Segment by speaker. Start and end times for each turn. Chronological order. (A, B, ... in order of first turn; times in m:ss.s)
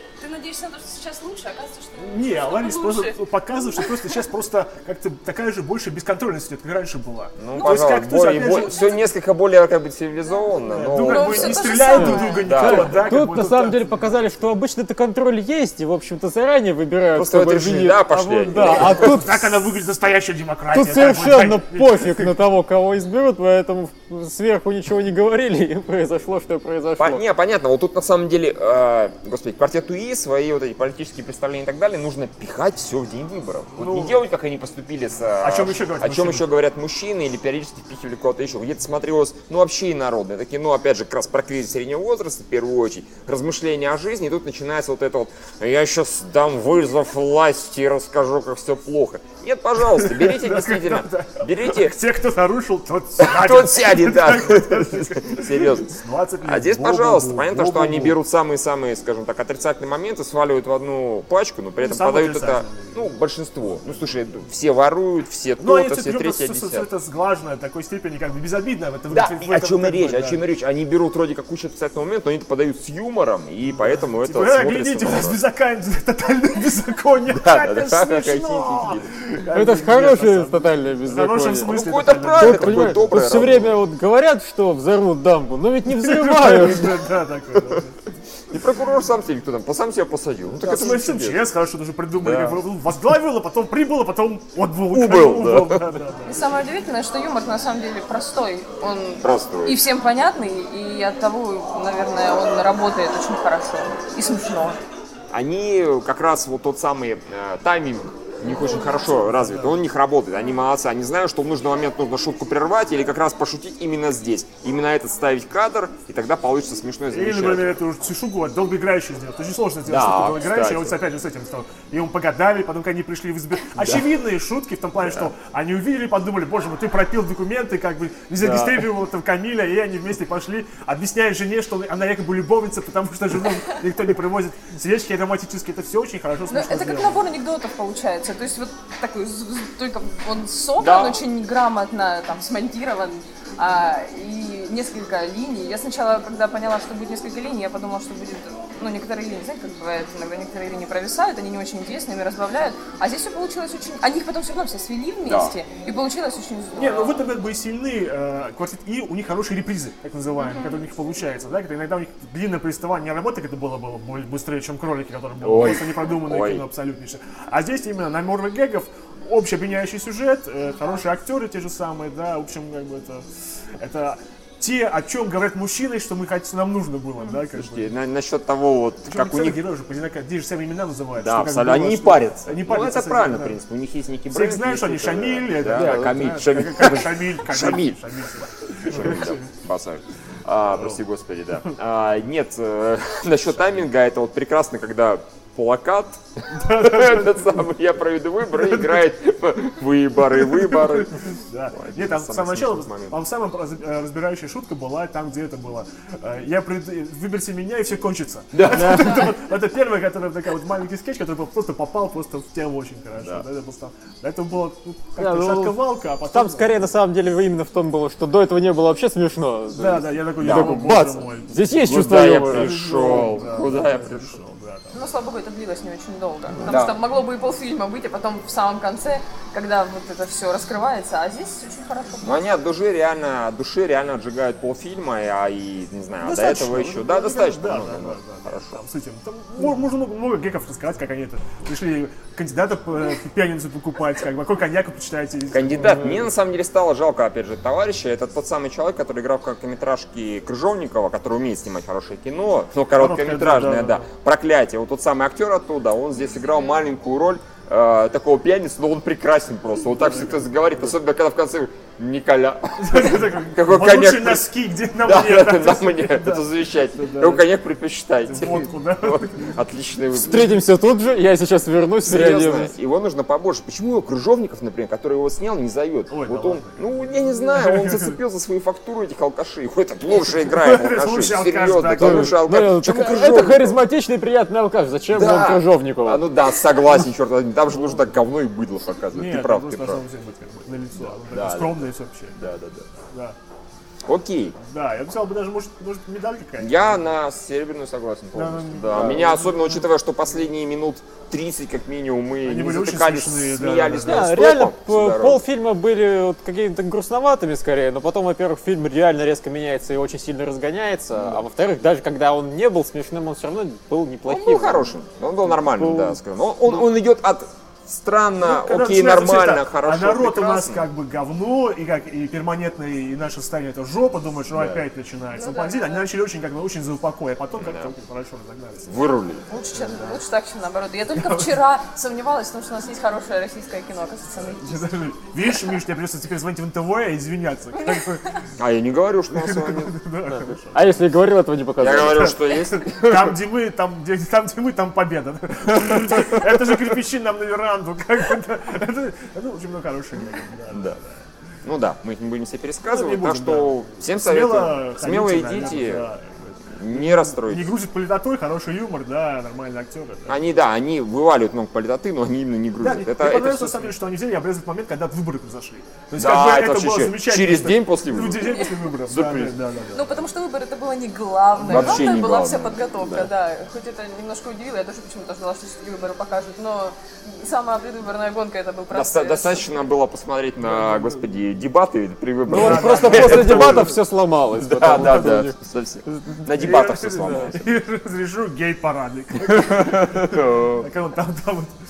0:00.2-0:04.2 A
0:02.0-0:09.0 B
0:07.4-0:11.8 C
0:07.5-0:08.9 A
0:10.6-0:14.2 B
0:11.0-0:12.7 A
0:12.0-0:19.4 D
0:12.3-0:13.1 C
0:17.1-0:19.2 C
0:18.5-0:22.3 B
0:20.7-0:27.2 D
0:27.0-0:52.0 C
0:33.8-0:34.2 B
0:35.4-0:36.4 B
0:49.8-0:58.2 B
0:53.2-1:06.9 C
1:01.8-1:04.2 B
1:05.6-1:10.4 B
1:09.1-1:15.4 C
1:14.0-1:23.1 B
1:17.3-1:19.2 C
1:19.5-1:21.7 D
1:21.6-1:23.8 C
1:22.3-1:26.9 D
1:25.9-1:28.0 B
1:28.5-1:31.4 C
1:30.6-1:36.4 B
1:32.2-1:32.6 C
1:34.9-1:35.8 C
1:36.2-1:44.8 A
1:39.2-1:39.8 C
1:45.3-1:57.8 C
1:49.0-1:49.8 B
1:57.1-2:17.2 B
1:59.8-2:01.0 C
2:03.8-2:04.1 C
2:05.0-2:05.3 C
2:08.4-2:08.8 C
2:16.5-2:37.2 A
2:20.8-2:21.2 C
2:35.2-2:35.6 C
2:36.7-2:53.2 B
2:40.4-2:40.8 A
2:45.4-2:46.7 C
2:53.8-2:57.9 B
2:57.4-2:59.6 C
2:59.0-3:03.6 B
3:01.2-3:08.0 C
3:04.3-3:09.4 B
3:08.8-3:23.2 C
3:16.5-3:17.6 B
3:18.6-3:19.0 B
3:20.5-3:21.0 B
3:21.5-3:36.8 B
3:28.5-3:29.2 C
3:28.7-3:29.2 D
3:35.2-3:42.8 D
3:39.7-3:45.0 B
3:40.4-3:41.0 C
3:41.8-3:44.4 C
3:44.9-3:52.5 A
3:46.6-3:47.0 C
3:52.2-3:58.8 C
3:56.2-4:06.3 B
4:05.5-4:24.5 C
4:12.9-4:14.1 B
4:19.9-4:20.9 B
4:22.8-4:27.5 B
4:25.0-4:30.6 C
4:28.2-4:29.6 B
4:30.1-4:32.7 D
4:32.0-4:43.8 C
4:36.1-4:38.2 B
4:40.4-4:42.4 B
4:42.0-4:46.9 D
4:45.1-4:50.0 C
4:49.1-4:52.4 B
4:51.0-4:52.9 C
4:53.1-4:53.4 B
4:54.0-4:54.6 C
4:54.7-4:57.0 B
4:56.6-5:05.4 C
4:58.3-4:59.8 B
5:02.4-5:04.3 B
5:04.0-5:14.9 D
5:14.2-5:20.9 C
5:15.4-5:16.2 D
5:18.4-5:28.9 B
5:24.5-5:24.8 C
5:25.3-5:26.1 A
5:27.5-5:28.0 C
5:28.8-5:29.4 C
5:29.5-5:34.9 A
5:29.7-5:30.2 B
5:31.1-5:31.6 B
5:34.4-5:38.4 B
5:38.6-5:40.0 C
5:39.3-5:41.0 B
5:40.7-5:42.4 D
5:41.8-5:43.4 C
5:42.2-5:51.2 B
5:50.7-5:51.0 C
5:51.6-5:56.1 C
5:52.8-6:00.5 B
5:56.7-5:57.7 C
6:00.3-6:04.0 C
6:02.8-6:10.2 B
6:06.1-6:09.5 C
6:08.4-6:08.8 A
6:09.9-6:19.7 A
6:11.6-6:13.3 C
6:11.7-6:12.2 B
6:18.9-6:24.0 C
6:20.6-6:21.4 B
6:22.5-6:25.5 D
6:22.5-6:24.0 B
6:24.6-6:27.7 C
6:26.0-6:26.4 D
6:26.5-6:31.7 B
6:29.4-6:30.9 C